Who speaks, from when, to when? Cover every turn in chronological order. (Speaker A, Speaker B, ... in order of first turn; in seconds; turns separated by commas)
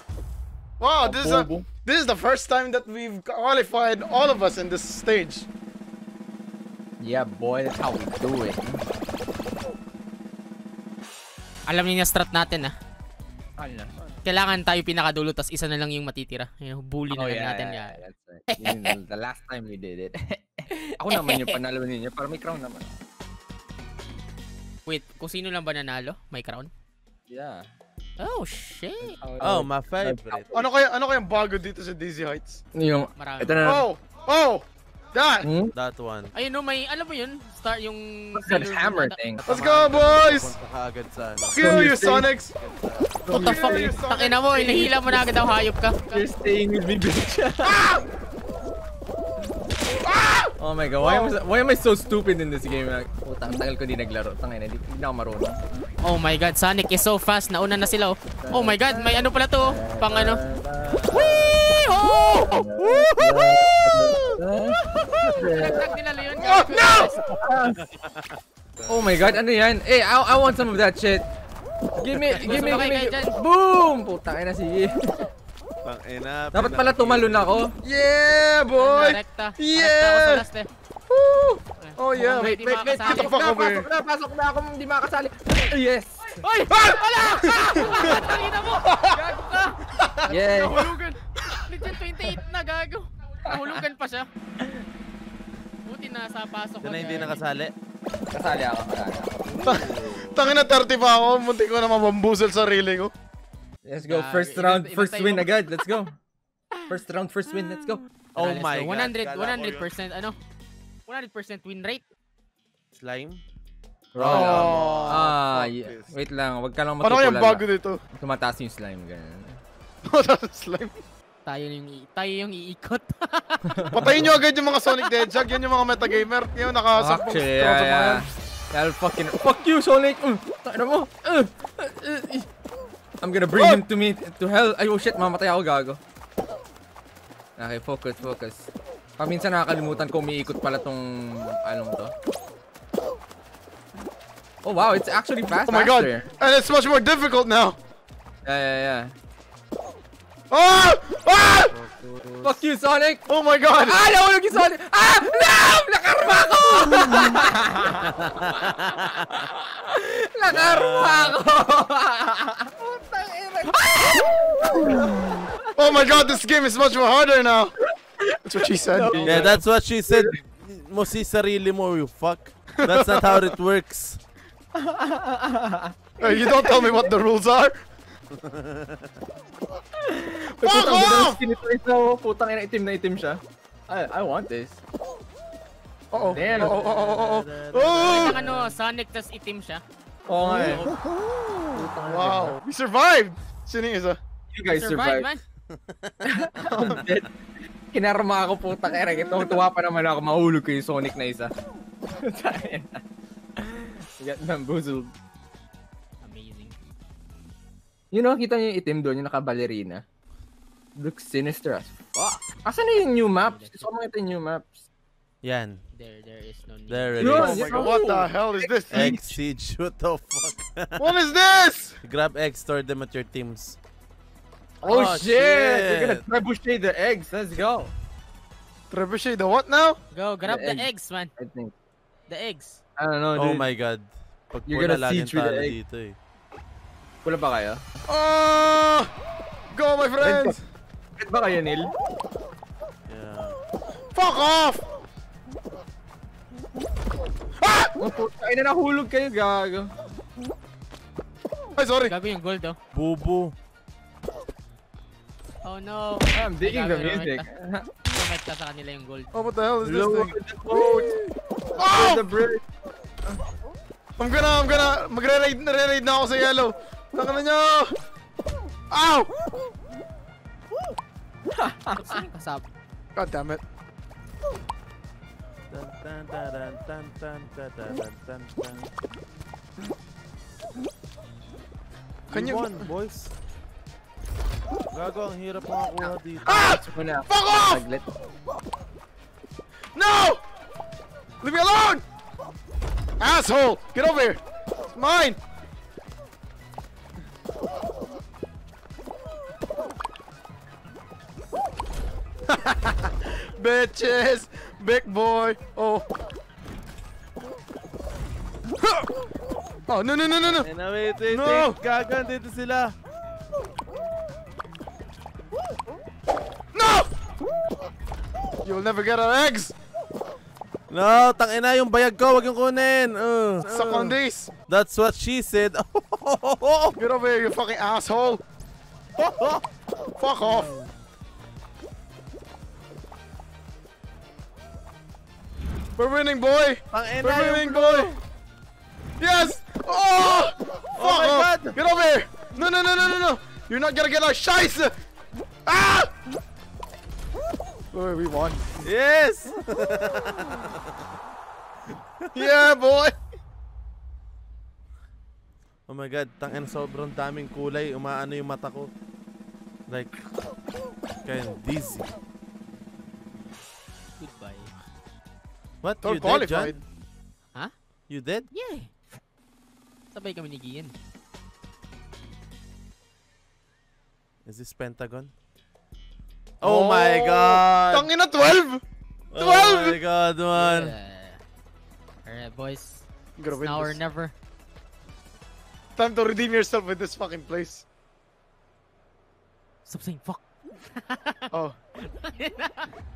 Speaker A: 0.8-5.5, Speaker B: 1.0-1.7, Speaker B: 7.0-8.8, Speaker C: 11.7-12.7, Speaker B: 13.6-13.9, Speaker C: 14.2-19.0, Speaker B: 17.1-23.0, Speaker C: 21.1-21.6, Speaker C: 24.9-26.7, Speaker B: 27.3-27.7, Speaker C: 28.2-29.2, Speaker B: 29.0-30.6, Speaker D: 29.4-30.5, Speaker A: 30.5-32.6, Speaker B: 32.8-33.9, Speaker C: 33.2-33.6, Speaker A: 33.6-35.5, Speaker B: 35.4-35.7, Speaker D: 35.8-36.3, Speaker C: 36.3-39.6, Speaker B: 38.4-39.4, Speaker A: 39.5-40.6, Speaker D: 39.5-41.8, Speaker A: 41.4-42.5, Speaker B: 41.6-42.3, Speaker D: 42.6-43.2, Speaker A: 43.2-45.2, Speaker B: 43.3-43.9, Speaker C: 43.3-46.2, Speaker B: 46.1-47.8, Speaker A: 47.6-48.0, Speaker A: 50.0-51.4, Speaker B: 50.6-55.6, Speaker C: 56.0-60.4, Speaker B: 58.4-61.8, Speaker D: 60.9-61.4, Speaker A: 61.9-62.6, Speaker B: 62.4-65.9, Speaker D: 62.8-63.4, Speaker C: 65.4-67.2, Speaker A: 66.4-67.4, Speaker B: 67.3-67.8, Speaker D: 67.8-69.4, Speaker B: 68.9-71.3, Speaker B: 72.0-74.9, Speaker D: 72.2-72.8, Speaker C: 72.4-73.4, Speaker D: 75.8-77.5, Speaker B: 76.5-77.7, Speaker A: 77.8-80.5, Speaker C: 78.8-80.7, Speaker B: 81.1-81.6, Speaker C: 81.8-83.4, Speaker A: 82.0-83.9, Speaker B: 82.4-86.3, Speaker C: 86.4-89.8, Speaker A: 86.7-88.1, Speaker A: 88.8-89.2, Speaker A: 90.0-91.0, Speaker B: 90.3-90.9, Speaker C: 90.5-94.3, Speaker B: 93.5-93.8, Speaker C: 95.8-97.4, Speaker D: 96.8-97.7, Speaker B: 98.3-99.3, Speaker D: 99.5-100.4, Speaker A: 99.6-103.1, Speaker B: 103.8-106.2, Speaker C: 104.0-105.5, Speaker C: 106.8-107.0, Speaker B: 106.9-108.0, Speaker C: 107.6-110.4, Speaker D: 108.3-110.0, Speaker C: 111.1-112.0, Speaker D: 112.9-113.4, Speaker D: 114.2-116.2, Speaker B: 114.2-119.6, Speaker A: 114.2-115.3, Speaker A: 117.0-118.0, Speaker A: 120.1-120.9, Speaker C: 121.5-123.9, Speaker B: 123.8-124.3, Speaker A: 123.9-128.3, Speaker B: 126.9-132.5, Speaker B: 133.2-136.0, Speaker A: 133.6-133.8, Speaker B: 137.6-142.1, Speaker B: 144.6-146.3, Speaker A: 145.7-147.8, Speaker B: 148.4-149.1, Speaker A: 150.5-151.7, Speaker D: 151.6-152.7, Speaker B: 152.4-158.1, Speaker A: 153.3-154.0, Speaker D: 158.0-158.7, Speaker B: 158.7-166.2, Speaker D: 160.5-161.4, Speaker A: 164.8-165.1, Speaker A: 165.7-167.7, Speaker B: 168.3-170.4, Speaker A: 168.4-169.6, Speaker D: 169.2-174.2, Speaker A: 172.8-173.5, Speaker B: 174.8-177.1, Speaker A: 176.2-177.8, Speaker D: 178.4-179.1, Speaker B: 180.1-184.8, Speaker A: 180.6-181.4, Speaker A: 186.1-188.4, Speaker D: 186.1-188.8, Speaker B: 186.3-186.8, Speaker C: 188.0-189.8, Speaker B: 190.3-190.9, Speaker D: 190.4-191.6, Speaker A: 190.6-190.8, Speaker B: 191.7-192.6, Speaker A: 192.0-194.2, Speaker B: 194.5-195.3, Speaker C: 194.7-195.4, Speaker D: 195.8-196.1, Speaker B: 196.3-197.3, Speaker A: 196.7-197.0, Speaker B: 197.9-201.5, Speaker B: 202.2-203.0, Speaker B: 203.6-205.1, Speaker C: 206.2-206.8, Speaker B: 208.1-210.0, Speaker B: 211.0-214.8, Speaker C: 213.3-213.9, Speaker D: 215.4-215.8, Speaker C: 215.9-217.4, Speaker D: 216.9-217.6, Speaker B: 217.2-219.4, Speaker A: 217.3-219.1, Speaker D: 218.9-221.1, Speaker A: 221.0-222.0, Speaker D: 222.0-223.8, Speaker B: 224.8-227.9, Speaker D: 224.8-226.3, Speaker A: 228.9-230.0, Speaker C: 230.1-231.3, Speaker B: 230.5-231.7, Speaker C: 232.3-232.8, Speaker B: 233.0-233.7, Speaker D: 233.3-236.2, Speaker B: 234.7-235.8, Speaker B: 237.2-237.8, Speaker A: 238.1-239.1, Speaker A: 239.7-240.6, Speaker B: 240.2-240.6, Speaker B: 241.2-241.9, Speaker D: 243.1-243.6, Speaker A: 244.2-244.8, Speaker A: 247.6-247.9, Speaker B: 248.0-249.9, Speaker A: 251.8-252.1, Speaker C: 252.1-252.8, Speaker D: 252.9-253.6, Speaker C: 255.6-257.5, Speaker B: 256.3-257.9, Speaker C: 258.1-259.3, Speaker A: 259.3-260.4, Speaker D: 259.8-261.1, Speaker B: 260.7-262.6, Speaker A: 261.8-262.3, Speaker A: 264.2-267.9, Speaker A: 268.9-269.3, Speaker B: 271.6-272.2, Speaker C: 271.9-272.6, Speaker A: 273.2-273.6, Speaker D: 275.7-278.9, Speaker D: 282.3-283.3, Speaker A: 282.3-282.9, Speaker D: 284.9-286.7, Speaker A: 286.4-287.9, Speaker B: 286.5-288.1, Speaker A: 289.9-290.4, Speaker A: 291.4-292.0, Speaker A: 293.2-294.4, Speaker A: 294.9-295.4, Speaker A: 302.5-306.1, Speaker A: 309.9-310.7, Speaker D: 310.5-312.9, Speaker A: 311.3-311.8, Speaker A: 316.7-317.1, Speaker A: 318.6-319.7, Speaker D: 320.9-327.0, Speaker A: 323.6-324.5, Speaker A: 327.0-328.4, Speaker D: 329.2-329.6, Speaker A: 330.2-330.7, Speaker D: 330.4-330.7, Speaker A: 336.0-338.1, Speaker D: 336.9-338.2, Speaker A: 339.2-344.9, Speaker D: 340.9-341.8, Speaker A: 345.7-346.1, Speaker A: 347.9-348.9, Speaker D: 348.8-350.7, Speaker A: 352.4-353.1, Speaker D: 355.9-358.9, Speaker D: 359.9-360.2, Speaker D: 361.2-362.1, Speaker C: 364.2-364.8, Speaker D: 365.8-366.8, Speaker A: 366.0-366.8, Speaker D: 368.1-368.5, Speaker C: 368.5-368.9, Speaker C: 370.1-370.9, Speaker D: 374.4-375.3, Speaker D: 376.6-378.1, Speaker A: 376.6-378.8, Speaker D: 379.3-381.0, Speaker A: 379.4-380.0, Speaker C: 380.6-381.4, Speaker C: 382.3-384.3, Speaker A: 383.4-384.0, Speaker A: 386.0-387.9, Speaker C: 389.9-392.9